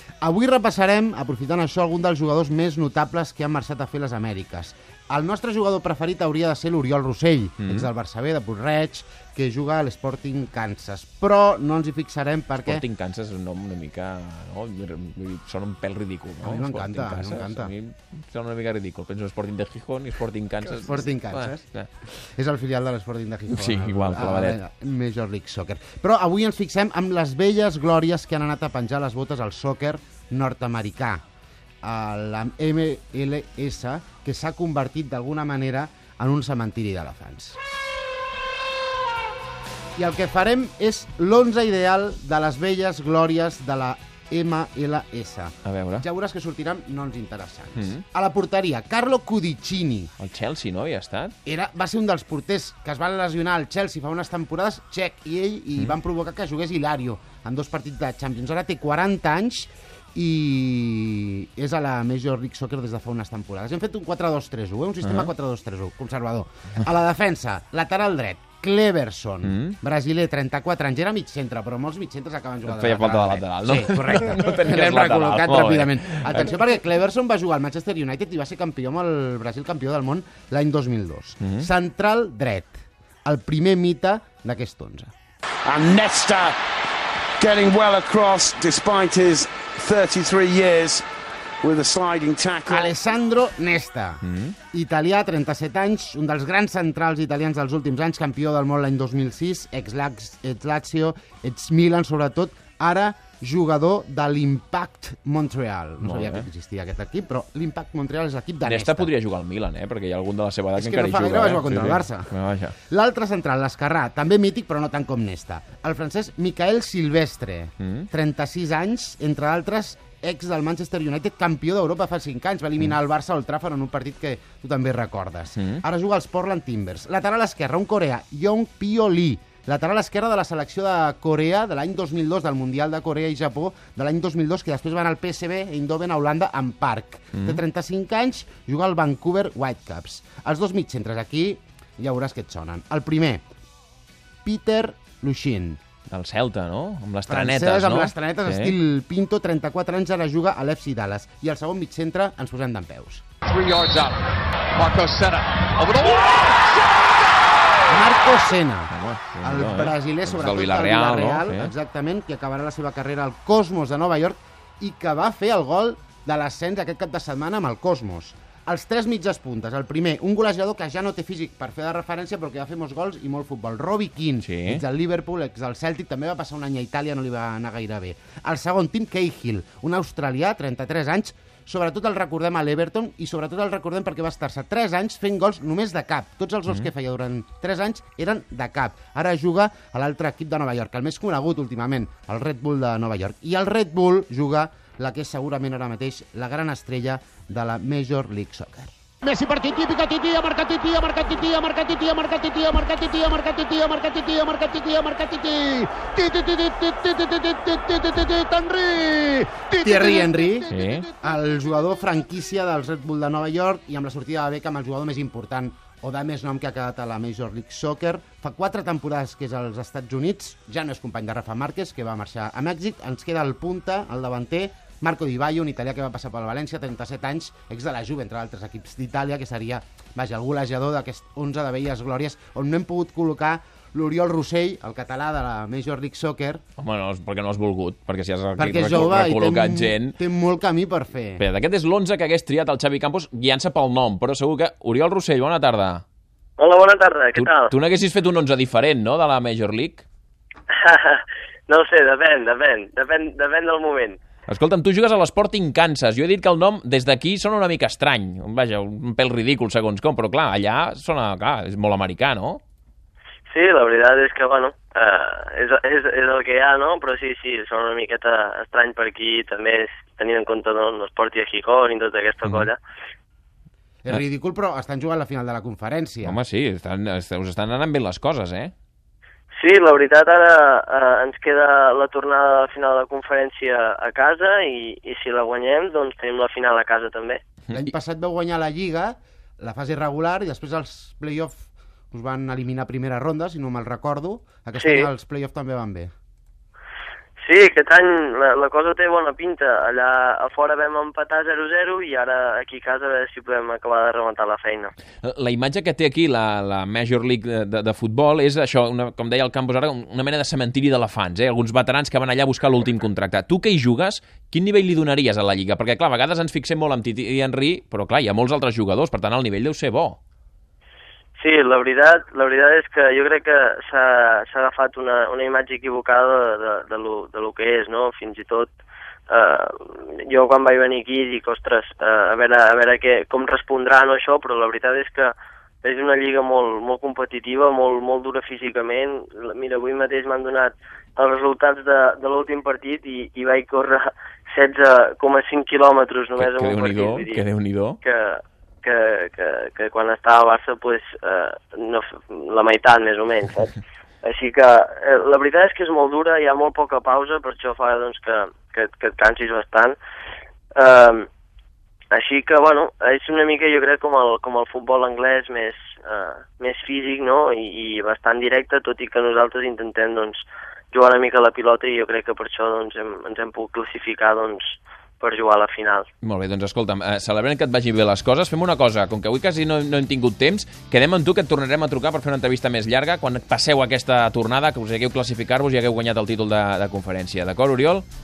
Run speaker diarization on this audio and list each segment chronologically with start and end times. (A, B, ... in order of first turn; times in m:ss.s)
0:00.2-0:12.8 A
0:07.6-0:07.9 B
0:12.6-0:21.9 B
0:16.4-0:17.7 A
0:20.7-0:21.6 A
0:22.4-0:31.2 A
0:23.5-0:24.6 B
0:31.8-0:37.6 A
0:40.0-0:50.1 A
0:45.6-0:46.0 B
0:47.7-0:48.0 B
0:50.2-0:51.3 B
0:51.4-1:25.1 A
1:05.0-1:05.3 B
1:09.4-1:09.8 B
1:12.6-1:16.6 B
1:21.4-1:21.7 B
1:25.6-1:26.6 C
1:27.4-1:31.0 C
1:31.6-1:33.0 C
1:32.7-1:49.1 A
1:34.2-1:34.6 B
1:46.0-1:46.5 B
1:48.6-1:52.8 B
1:50.7-1:52.3 A
1:52.9-2:23.4 A
1:57.8-1:58.1 B
2:05.6-2:05.8 B
2:17.3-2:17.6 B
2:24.4-2:25.8 A
2:26.1-2:28.7 B
2:27.3-2:33.2 A
2:33.4-2:36.7 D
2:37.9-3:56.6 A
2:38.9-2:41.7 B
2:54.4-2:54.8 B
3:30.7-3:31.1 B
3:56.8-4:00.2 B
3:58.6-4:01.4 A
4:01.4-4:06.0 B
4:06.6-4:07.7 E
4:07.4-4:10.0 B
4:10.7-4:14.2 E
4:14.5-4:22.6 B
4:23.5-4:32.8 E
4:32.4-4:32.7 B
4:34.0-4:36.4 A
4:36.2-4:38.7 B
4:39.5-4:47.4 E
4:47.7-4:56.1 A
4:54.8-4:55.1 E
4:57.4-5:04.9 E
5:05.2-5:20.2 B
5:21.4-5:28.7 E
5:29.3-5:47.4 E
5:46.4-5:48.0 B
5:48.0-6:00.0 E
6:00.8-6:01.3 E
6:02.1-6:16.1 E
6:16.2-6:28.0 B